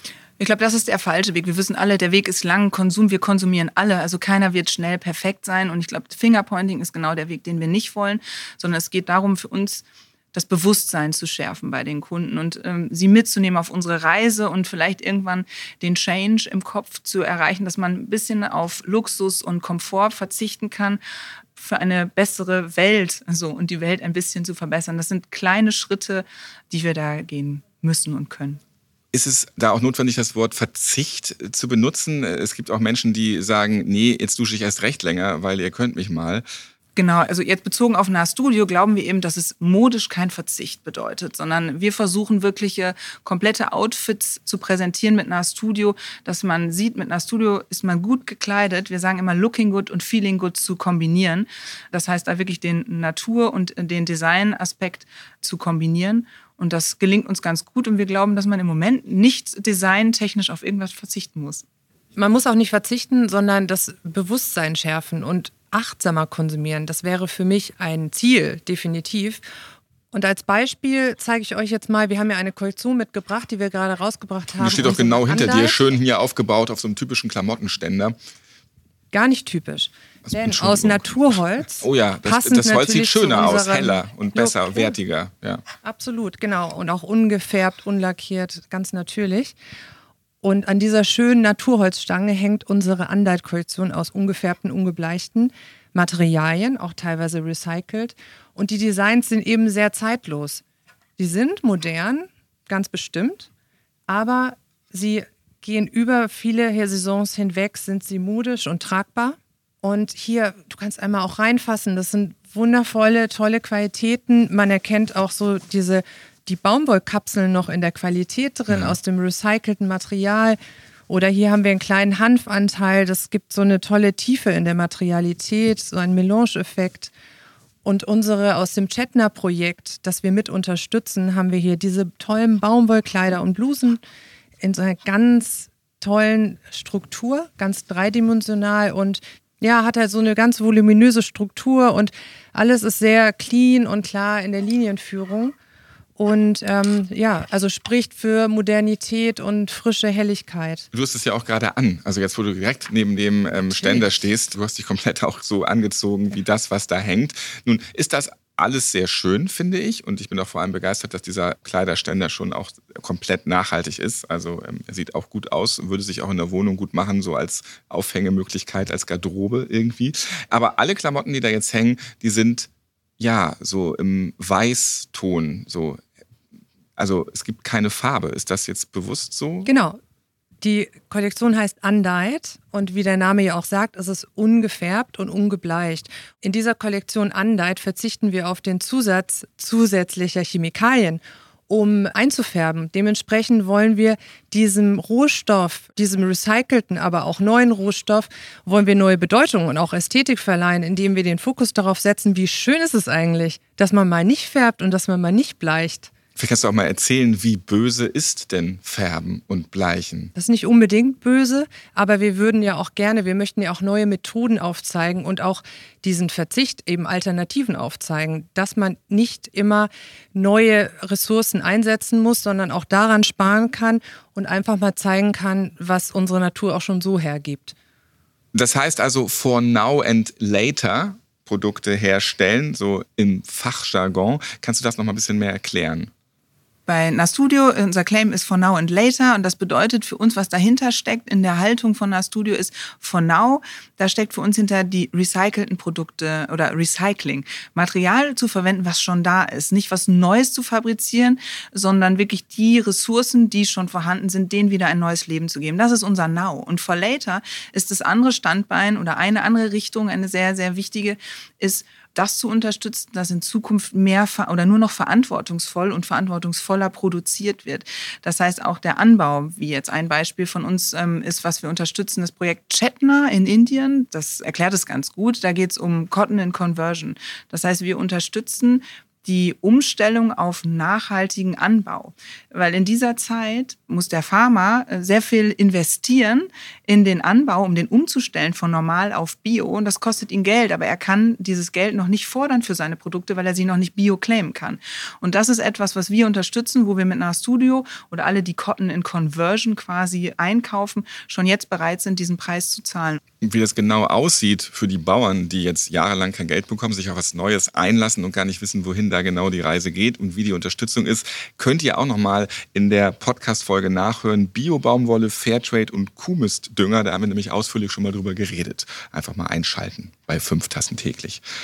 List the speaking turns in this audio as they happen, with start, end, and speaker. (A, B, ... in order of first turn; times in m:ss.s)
0:00.4-0:21.0 A
0:21.6-0:28.6 A
0:29.1-0:36.4 B
0:37.0-1:01.6 A
1:02.2-1:09.4 C
1:10.1-1:15.8 C
1:14.6-1:18.2 B
1:19.1-1:24.9 C
1:20.3-1:21.2 B
1:21.8-1:25.6 B
1:25.8-1:29.6 C
1:30.4-1:40.6 C
1:41.2-1:43.5 C
1:44.1-2:00.6 C
1:58.7-1:59.0 B
2:01.1-2:07.1 C
2:07.8-2:14.0 C
2:14.6-2:25.6 C
2:26.2-2:30.9 C
2:30.9-2:56.0 B
2:57.0-2:59.7 B
2:59.7-3:00.0 C
3:00.6-3:26.1 C
3:26.4-3:30.3 B
3:30.4-3:47.8 C
3:48.5-3:56.1 B
3:56.9-5:03.2 A
5:03.4-5:21.4 B